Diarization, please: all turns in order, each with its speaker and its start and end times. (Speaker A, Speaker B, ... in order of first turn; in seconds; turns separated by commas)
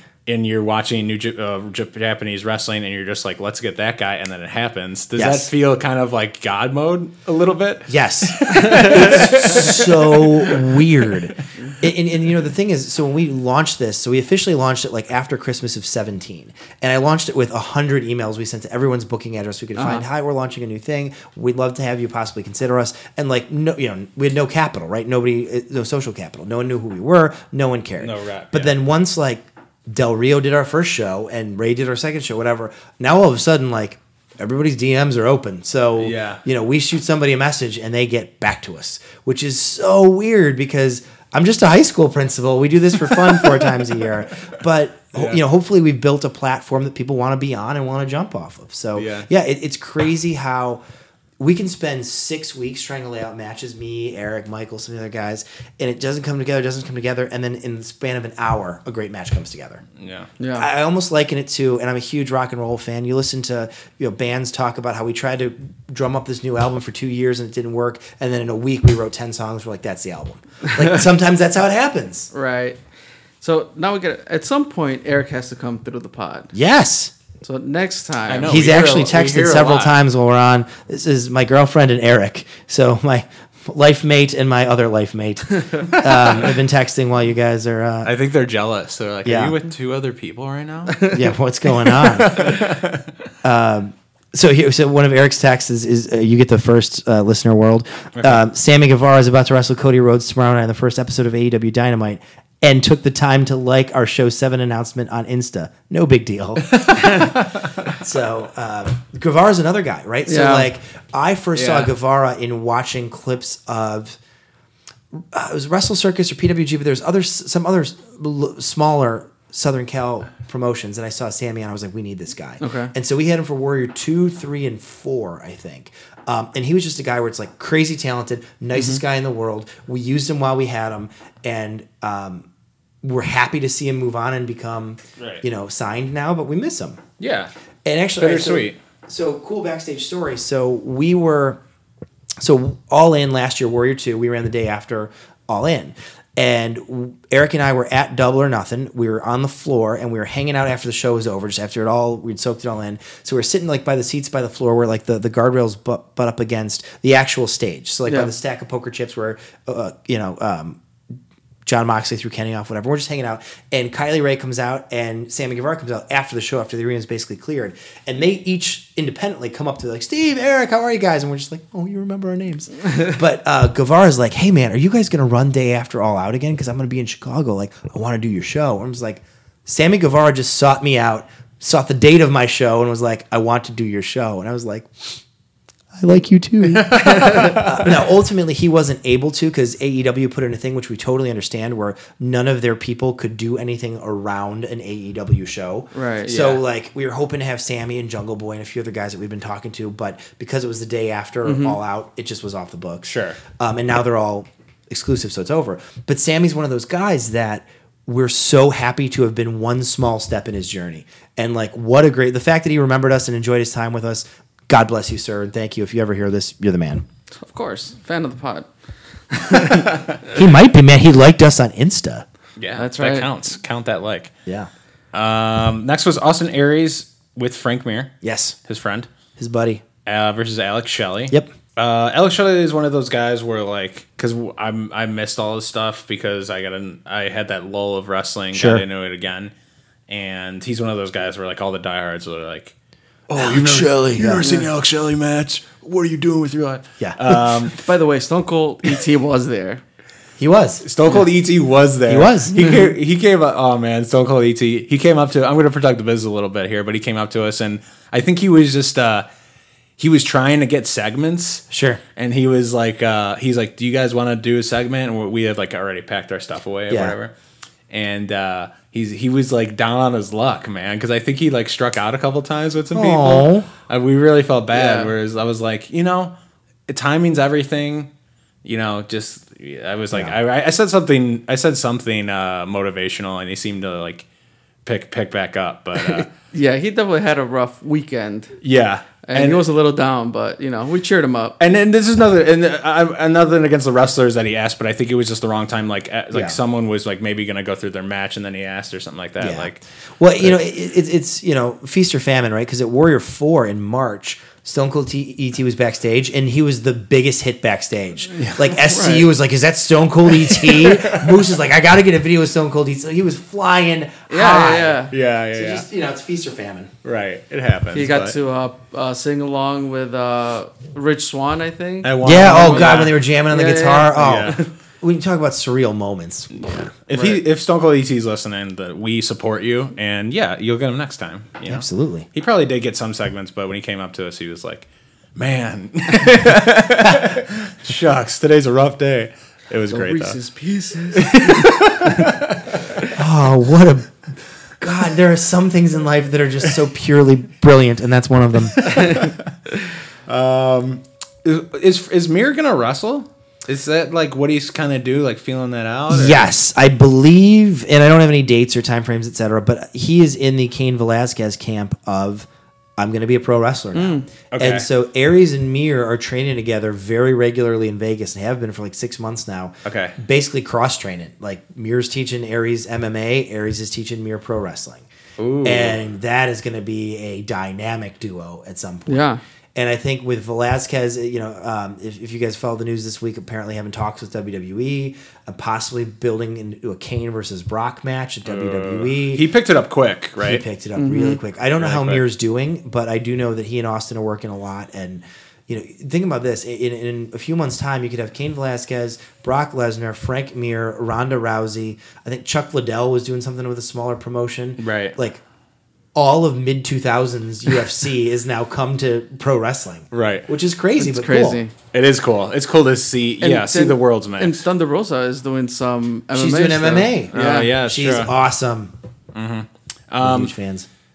Speaker A: 0.3-11.2, Speaker B: 5.2-5.5, Speaker B: 7.9-50.8, Speaker C: 19.8-20.1, Speaker A: 28.0-28.7, Speaker A: 36.0-36.4, Speaker A: 43.1-43.7, Speaker A: 45.1-45.4, Speaker A: 49.0-49.3, Speaker B: 51.4-59.8, Speaker A: 60.0-60.3, Speaker C: 60.4-60.7, Speaker B: 60.5-72.3, Speaker C: 72.3-72.8, Speaker C: 73.4-76.5, Speaker B: 76.5-77.1, Speaker C: 77.4-78.5, Speaker A: 78.3-80.0, Speaker B: 78.5-88.1, Speaker A: 88.0-91.1, Speaker B: 89.2-89.5, Speaker B: 91.1-92.7, Speaker A: 92.0-93.1, Speaker B: 93.4-107.3, Speaker A: 106.7-107.9, Speaker B: 107.9-114.2, Speaker C: 110.3-110.7, Speaker A: 111.5-111.9, Speaker B: 115.1-132.5, Speaker C: 122.6-122.9, Speaker B: 133.0-137.0, Speaker A: 137.2-137.5, Speaker B: 137.8-141.6, Speaker A: 138.2-138.8, Speaker B: 142.4-160.8, Speaker B: 161.7-185.2, Speaker B: 185.9-217.1, Speaker A: 186.6-187.9, Speaker C: 186.9-187.6, Speaker C: 195.9-196.4, Speaker A: 196.2-196.6, Speaker C: 201.4-201.8, Speaker A: 203.1-203.4, Speaker C: 217.4-218.7, Speaker C: 219.3-219.9, Speaker B: 220.3-222.3, Speaker A: 222.6-224.3, Speaker C: 222.8-223.3, Speaker A: 225.1-228.1, Speaker B: 228.2-228.6, Speaker A: 228.7-229.1, Speaker B: 229.4-229.8, Speaker A: 230.1-239.5, Speaker B: 238.5-238.8, Speaker A: 240.1-242.7, Speaker A: 243.3-247.8, Speaker B: 243.3-244.6, Speaker C: 244.4-244.7, Speaker B: 247.0-247.7, Speaker C: 247.8-249.8, Speaker B: 250.4-250.8, Speaker A: 250.8-259.2, Speaker B: 252.1-252.6, Speaker A: 260.0-267.3, Speaker B: 261.7-262.0, Speaker B: 266.9-267.1, Speaker A: 267.9-276.3, Speaker B: 272.9-273.7, Speaker C: 274.7-275.1, Speaker A: 276.9-278.1, Speaker A: 278.6-284.3, Speaker B: 280.1-280.4, Speaker A: 284.9-286.3, Speaker C: 286.0-288.6, Speaker A: 288.6-289.6, Speaker C: 289.2-291.6, Speaker A: 291.6-299.8, Speaker B: 296.3-296.6, Speaker B: 299.4-315.0, Speaker A: 308.3-308.7, Speaker C: 308.8-309.3, Speaker A: 310.4-311.4, Speaker C: 314.3-315.1, Speaker A: 315.1-315.9, Speaker B: 315.5-316.9, Speaker A: 317.0-318.4, Speaker C: 317.9-324.7, Speaker A: 322.0-323.2, Speaker B: 322.2-327.4, Speaker A: 324.1-324.6, Speaker A: 326.6-340.4, Speaker B: 331.7-332.3, Speaker C: 339.9-342.4, Speaker A: 341.1-343.1, Speaker B: 343.1-344.1, Speaker B: 344.8-348.9, Speaker A: 348.8-349.5, Speaker C: 348.8-349.3, Speaker A: 350.3-356.5, Speaker B: 356.1-375.1, Speaker C: 363.9-364.3, Speaker A: 364.5-364.9, Speaker A: 369.9-370.2, Speaker A: 375.4-376.0, Speaker B: 375.6-389.4, Speaker C: 379.1-379.4, Speaker A: 388.4-390.6, Speaker B: 390.4-405.4, Speaker C: 391.0-391.4, Speaker A: 391.8-392.2, Speaker A: 404.8-405.2, Speaker B: 406.1-411.6, Speaker A: 410.1-410.5, Speaker C: 411.0-411.7, Speaker A: 411.9-414.6, Speaker C: 413.4-417.7, Speaker B: 416.3-418.9, Speaker A: 417.3-418.3, Speaker A: 419.3-420.5, Speaker B: 420.2-420.9